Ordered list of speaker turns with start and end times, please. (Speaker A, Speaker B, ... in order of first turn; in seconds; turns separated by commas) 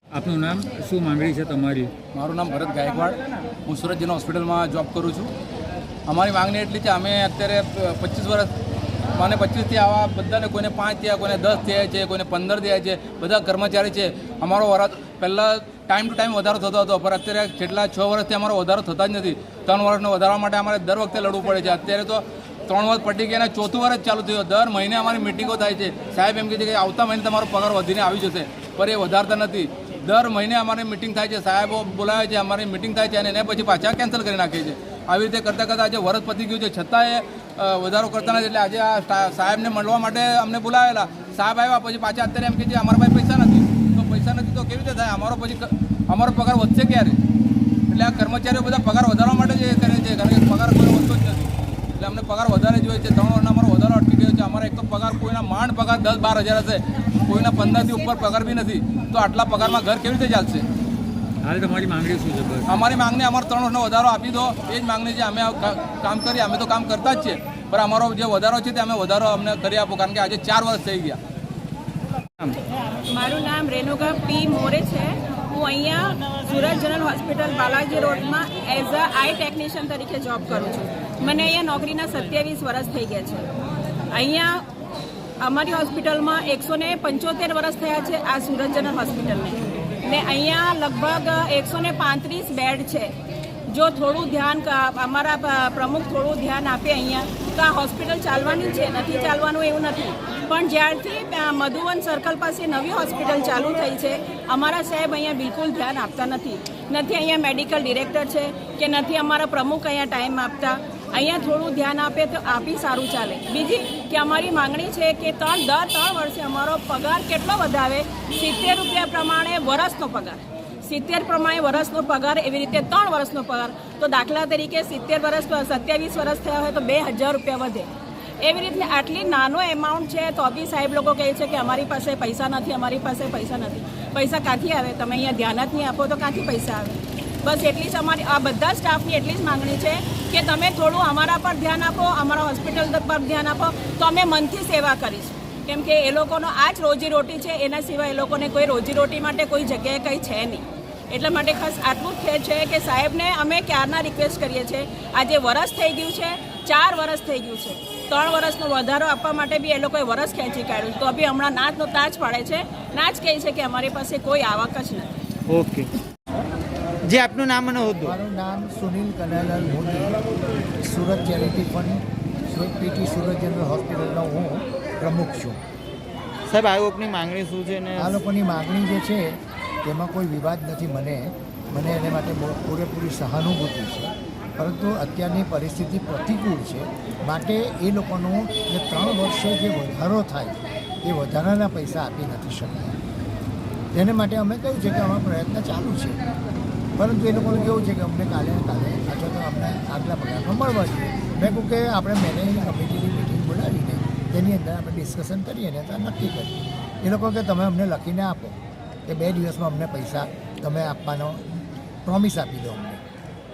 Speaker A: 0.1-1.9, Speaker B: 2.1-5.3, Speaker B: 6.1-8.5, Speaker B: 9.2-47.2, Speaker B: 47.9-60.6, Speaker A: 61.4-62.7, Speaker B: 62.7-71.2, Speaker C: 73.1-83.5, Speaker C: 84.1-84.6, Speaker C: 85.4-93.1, Speaker C: 93.7-127.9, Speaker C: 128.4-165.1, Speaker D: 165.5-165.9, Speaker D: 167.0-168.2, Speaker E: 168.0-170.2, Speaker E: 170.8-175.6, Speaker D: 176.5-178.2, Speaker E: 178.0-193.0, Speaker E: 193.9-196.2, Speaker E: 197.0-213.0